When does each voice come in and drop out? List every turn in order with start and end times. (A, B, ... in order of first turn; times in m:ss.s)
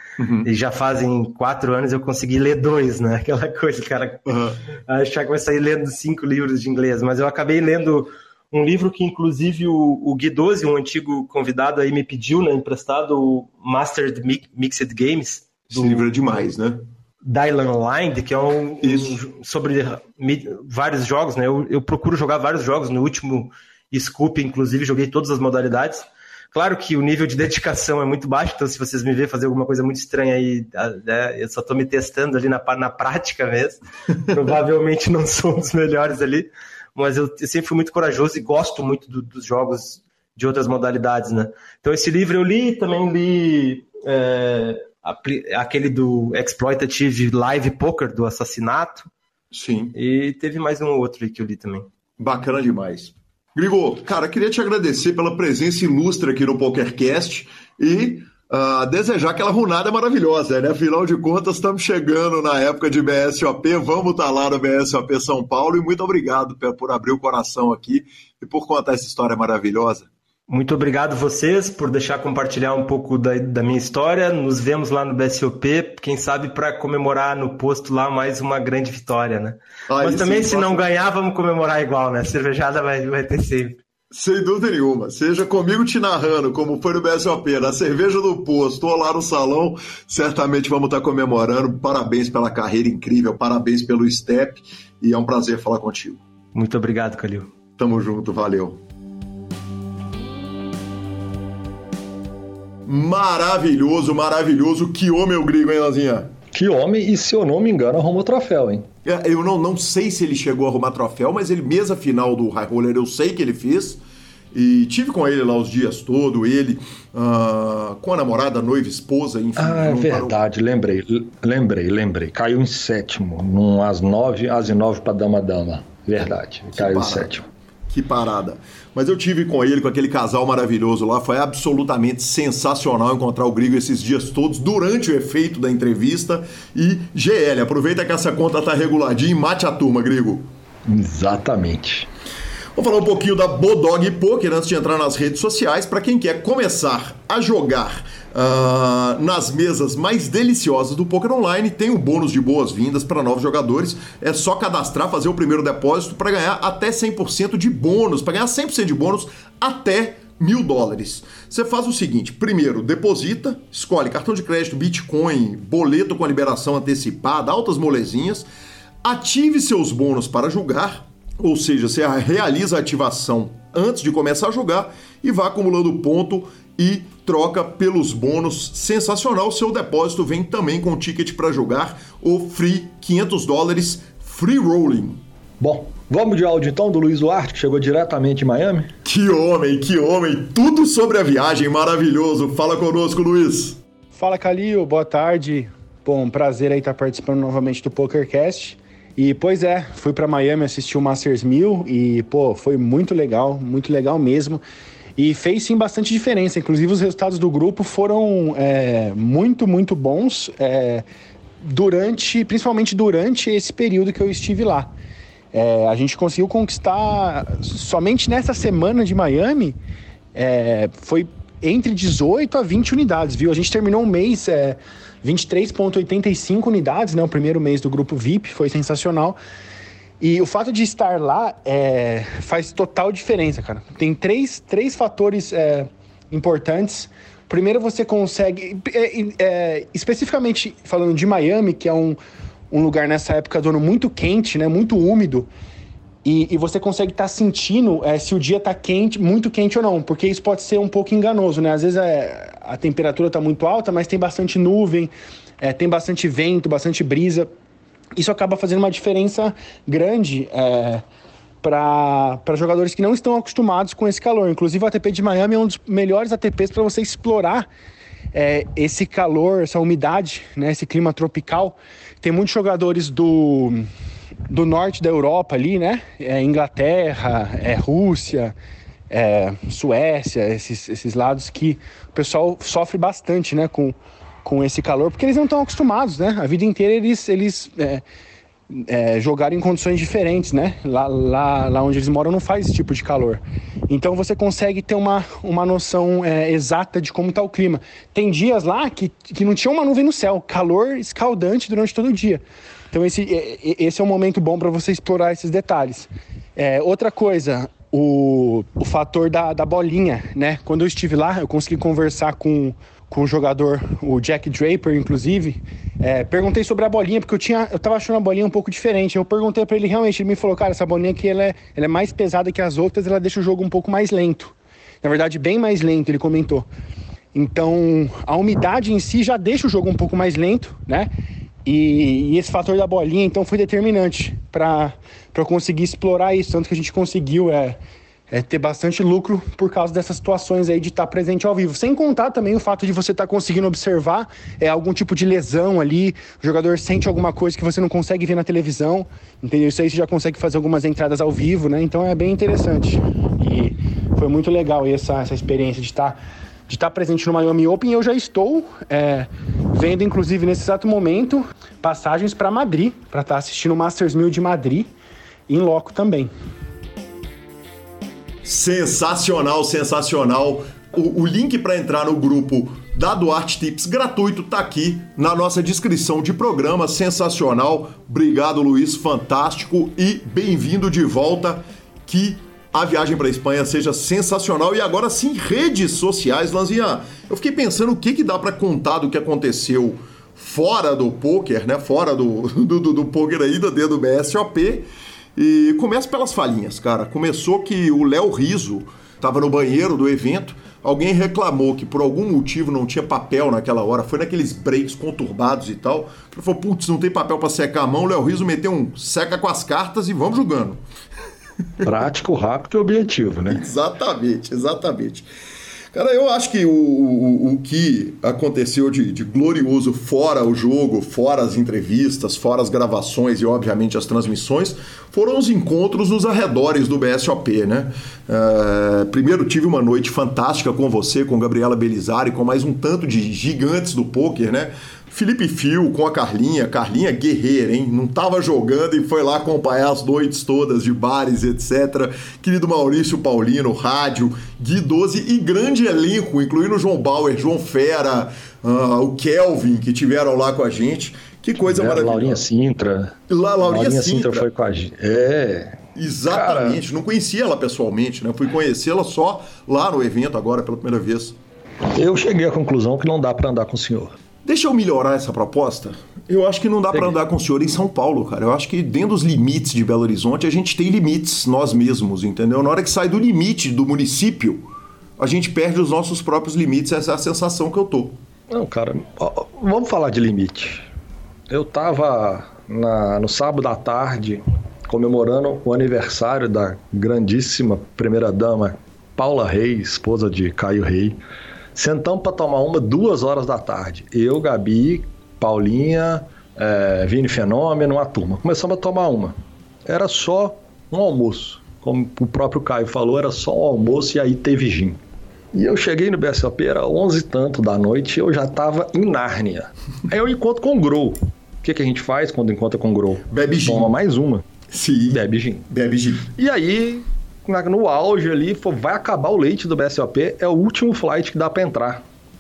0:00.2-0:00.5 A
0:00.4-0:04.3 B
0:04.3-0:04.6 A
0:04.9-0:16.1 B
0:15.7-0:16.8 A
0:17.2-0:49.1 B
0:18.8-0:19.2 A
0:49.5-0:50.0 A
0:50.0-0:51.9 B
0:52.2-1:10.1 A
1:10.5-1:23.8 B
1:19.9-1:20.9 A
1:24.1-1:36.2 A
1:36.6-1:37.5 B
1:37.8-1:38.8 A
1:42.9-1:46.3 A
1:46.5-1:48.9 C
1:49.0-1:54.0 A
1:54.5-2:00.4 A
1:59.6-2:07.4 C
2:06.7-2:07.3 A
2:07.9-2:20.4 A
2:20.9-2:22.1 C
2:22.8-2:48.5 A
2:49.0-3:05.2 A
3:05.6-3:08.9 C
3:09.0-3:13.8 A
3:14.1-3:24.6 D
3:25.2-3:31.0 D
3:31.6-3:34.9 D
3:35.5-3:39.8 D
3:40.3-3:49.4 D
3:50.2-4:02.2 D
4:02.7-4:05.5 D
4:06.2-4:17.5 D
4:18.2-4:21.0 D
4:21.6-4:27.7 D
4:28.3-4:33.9 D
4:34.5-4:38.6 D
4:39.1-4:48.0 D
4:48.7-5:26.7 D
5:27.3-5:31.1 D
5:31.6-5:37.8 D
5:38.3-6:04.9 D
6:05.5-6:06.3 D
6:08.4-6:50.8 A
6:51.8-6:53.6 C
6:53.5-6:55.3 A
6:55.9-7:32.4 A
7:31.6-7:36.8 C
7:33.3-7:34.5 A
7:36.0-7:41.4 A
7:41.9-7:44.1 C
7:44.4-7:54.7 A
7:55.2-7:58.2 A
7:58.5-8:00.8 C
8:01.5-8:11.2 C
8:11.7-8:25.0 C
8:25.5-8:34.4 C
8:33.3-8:33.9 A
8:34.7-8:36.3 A
8:35.1-8:35.7 C
8:36.3-8:42.0 C